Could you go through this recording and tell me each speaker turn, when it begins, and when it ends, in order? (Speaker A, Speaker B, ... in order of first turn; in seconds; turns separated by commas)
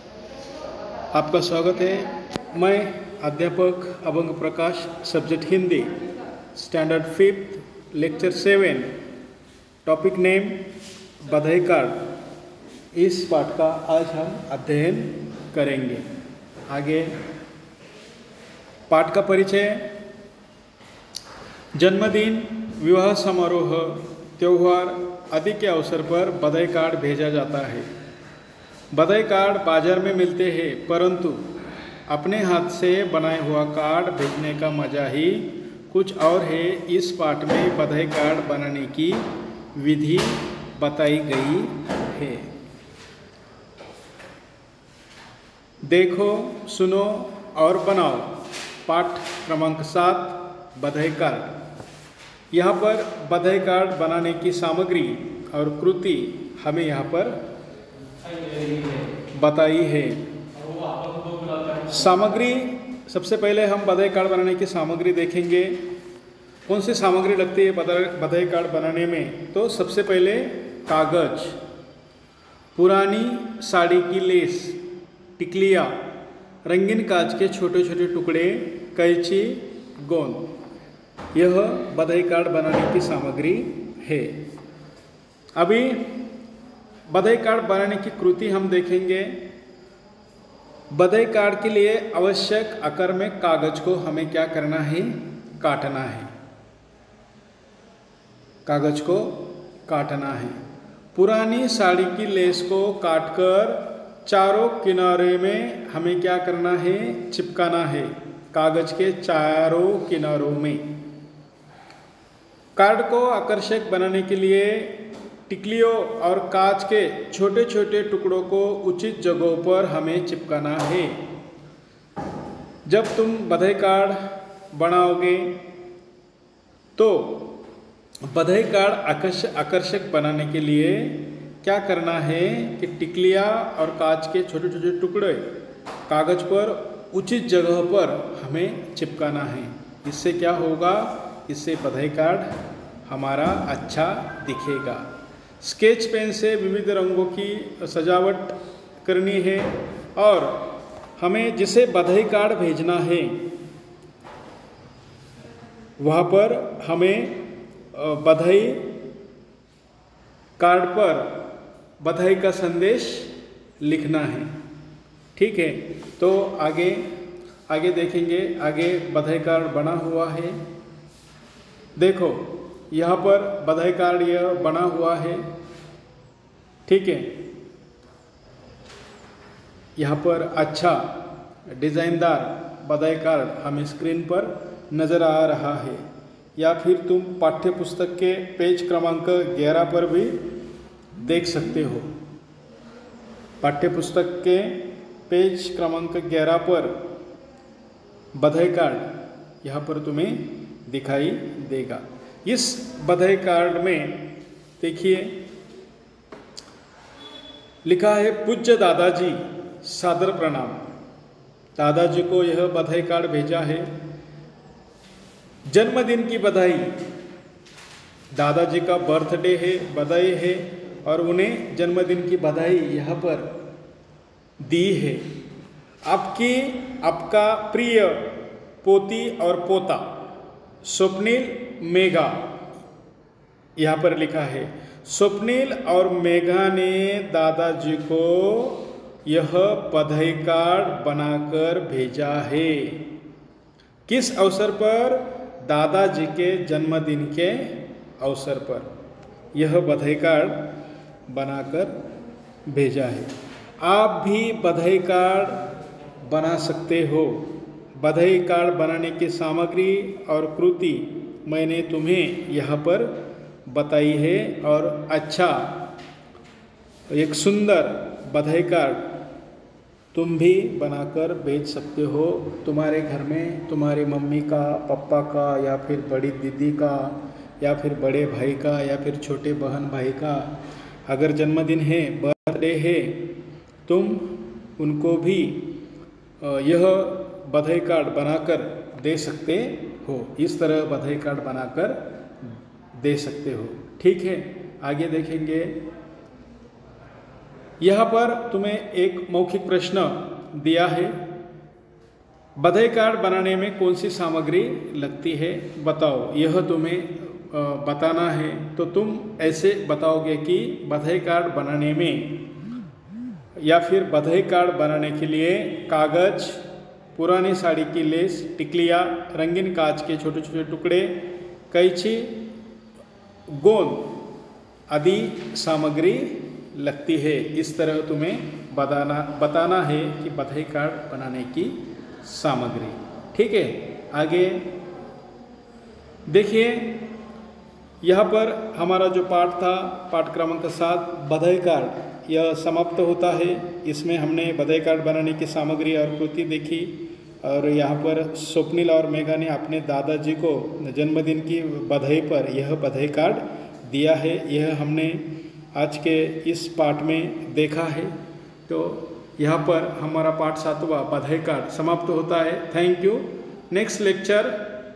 Speaker A: 1.1-5.9, Speaker A: 6.5-8.9, Speaker A: 9.8-12.1, Speaker A: 12.9-16.1, Speaker A: 16.7-17.2, Speaker A: 18.9-20.0, Speaker A: 21.8-27.9, Speaker A: 28.9-31.5, Speaker A: 32.1-42.5, Speaker A: 45.8-51.5, Speaker A: 52.5-57.4, Speaker A: 59.3-60.3, Speaker A: 61.8-65.8, Speaker A: 66.7-71.5, Speaker A: 72.7-74.8, Speaker A: 75.4-76.0, Speaker A: 76.7-80.5, Speaker A: 81.3-84.4, Speaker A: 85.6-86.3, Speaker A: 87.1-89.5, Speaker A: 90.9-96.3, Speaker A: 98.7-100.6, Speaker A: 101.1-111.0, Speaker A: 112.8-121.2, Speaker A: 122.8-125.6, Speaker A: 127.0-127.6, Speaker A: 128.2-135.6, Speaker A: 136.1-142.5, Speaker A: 143.1-145.1, Speaker A: 145.6-153.5, Speaker A: 156.0-159.0, Speaker A: 160.6-161.4, Speaker A: 162.0-164.5, Speaker A: 165.3-167.1, Speaker A: 167.7-170.6, Speaker A: 172.0-175.4, Speaker A: 176.8-177.4, Speaker A: 180.0-186.0, Speaker A: 186.6-190.4, Speaker A: 191.2-192.1, Speaker A: 193.6-197.0, Speaker A: 198.3-205.4, Speaker A: 207.8-210.9, Speaker A: 211.8-213.9, Speaker A: 215.7-216.9, Speaker A: 218.3-223.5, Speaker A: 224.6-225.3, Speaker A: 226.0-230.2, Speaker A: 230.8-232.5, Speaker A: 233.8-243.1, Speaker A: 244.1-248.9, Speaker A: 249.5-250.7, Speaker A: 251.3-252.0, Speaker A: 252.7-255.7, Speaker A: 256.2-265.9, Speaker A: 267.1-269.1, Speaker A: 270.1-280.6, Speaker A: 281.1-285.8, Speaker A: 286.4-295.8, Speaker A: 297.8-301.2, Speaker A: 302.6-312.5, Speaker A: 313.6-316.6, Speaker A: 317.1-322.5, Speaker A: 323.5-324.3, Speaker A: 324.9-334.7, Speaker A: 336.3-337.1, Speaker A: 338.0-358.1, Speaker A: 358.7-364.6